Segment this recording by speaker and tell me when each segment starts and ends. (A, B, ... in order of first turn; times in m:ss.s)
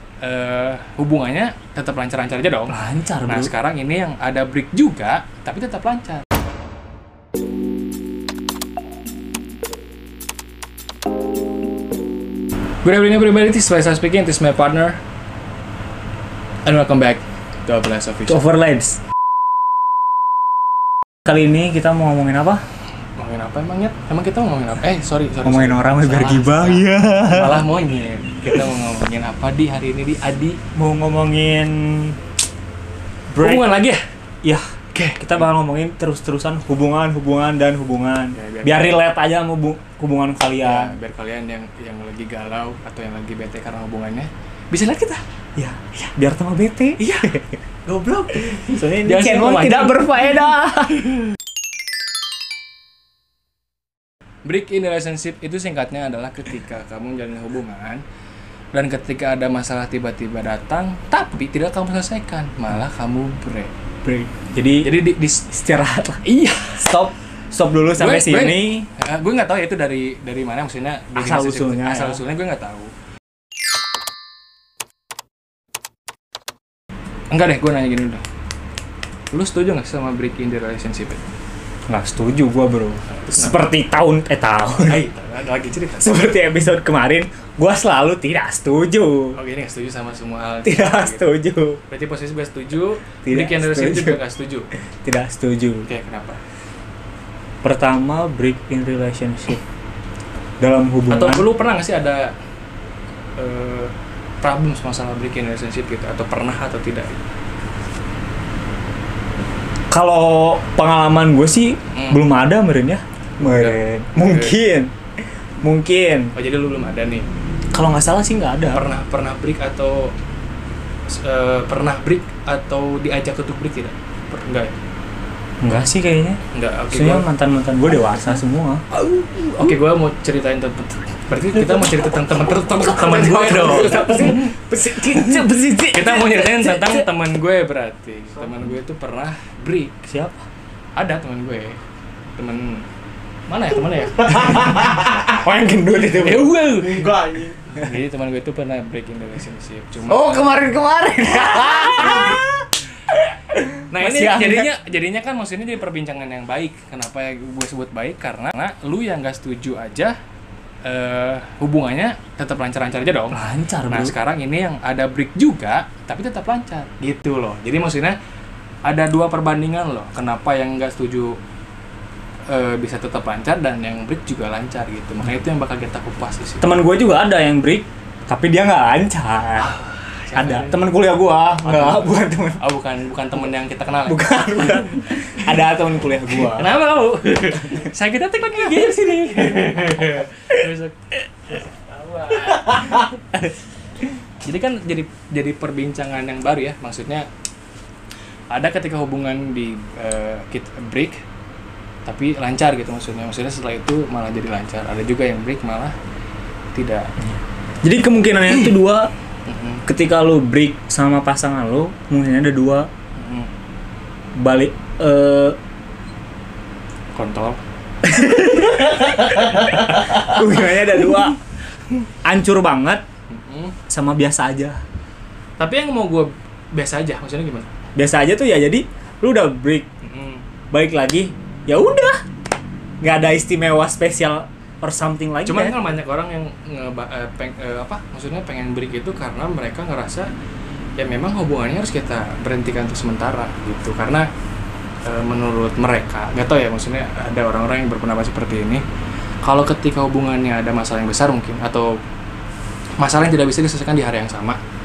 0:00.2-0:06.2 A
0:02.7-0:03.5 B
0:12.8-0:15.0 A
0:16.6-0:18.4 A
0:18.3-0:19.0 B
0:21.2-0:22.6 B
0:23.2-0:30.6 A
0:25.4-0:27.6 B
0:30.8-0:32.2 B
0:33.3-0:33.7 B
0:33.4-0:34.0 A
0:34.4-0:40.9 B
0:34.9-0:35.5 A
0:38.3-0:39.0 A
0:40.6-0:45.2 A
0:45.6-0:47.5 B
0:47.0-0:50.0 A
0:48.4-0:51.1 B
0:54.4-0:58.0 A
0:58.7-1:03.7 A
1:04.0-1:06.2 B
1:04.8-1:05.5 A
1:06.2-1:07.0 A
1:06.8-1:08.9 B
1:08.0-1:12.9 A
1:11.2-1:12.2 B
1:17.3-1:18.2 A
1:19.3-1:21.2 A
1:21.9-1:25.0 B
1:23.1-1:23.6 A
1:24.8-1:26.3 A
1:26.0-1:29.4 B
1:29.4-1:31.3 A
1:30.6-1:31.8 B
1:31.9-1:34.7 A
1:33.2-1:34.2 B
1:35.0-1:35.9 B
1:35.9-1:36.4 A
1:37.6-1:39.6 B
1:40.6-1:41.5 B
1:41.1-1:42.4 A
1:43.4-1:47.2 A
1:49.9-1:55.0 B
1:51.9-1:52.2 A
1:53.4-1:54.6 A
1:55.6-1:56.3 B
1:56.4-1:57.3 A
1:57.7-1:58.8 B
1:58.7-2:00.2 A
2:01.1-2:04.7 A
2:05.6-2:08.8 B
2:06.5-2:07.3 A
2:09.0-2:14.5 A
2:11.6-2:17.1 B
2:15.9-2:20.0 A
2:20.1-2:20.4 B
2:21.0-2:21.8 A
2:22.4-2:22.9 A
2:23.5-2:25.0 A
2:24.2-2:27.9 B
2:26.0-2:30.5 A
2:30.1-2:34.7 B
2:31.5-2:32.4 A
2:33.9-2:40.2 A
2:40.8-2:48.2 A
2:43.3-2:44.2 B
2:48.9-2:51.4 A
2:52.5-2:56.6 A
2:56.6-2:59.7 B
2:59.6-3:00.8 A
3:00.3-3:02.6 B
3:01.6-3:05.5 A
3:04.1-3:06.7 B
3:06.4-3:13.2 A
3:12.7-3:13.0 B
3:14.4-3:17.3 A
3:18.5-3:21.2 A
3:22.1-3:26.0 A
3:26.7-3:27.1 A
3:27.2-3:29.1 B
3:29.5-3:29.8 A
3:29.9-3:32.9 B
3:33.2-3:33.5 A
3:34.4-3:35.6 B
3:37.2-3:37.6 A
3:38.0-3:41.4 B
3:38.7-3:41.2 A
3:42.2-3:43.0 B
3:43.3-3:43.8 A
3:43.9-3:44.8 B
3:45.6-3:47.7 A
3:48.0-3:49.9 B
3:50.0-3:50.4 A
3:50.7-3:52.2 B
3:53.0-3:55.8 B
3:55.4-4:00.3 A
4:01.0-4:04.3 A
4:05.0-4:08.8 A
4:09.4-4:12.0 A
4:13.0-4:14.6 A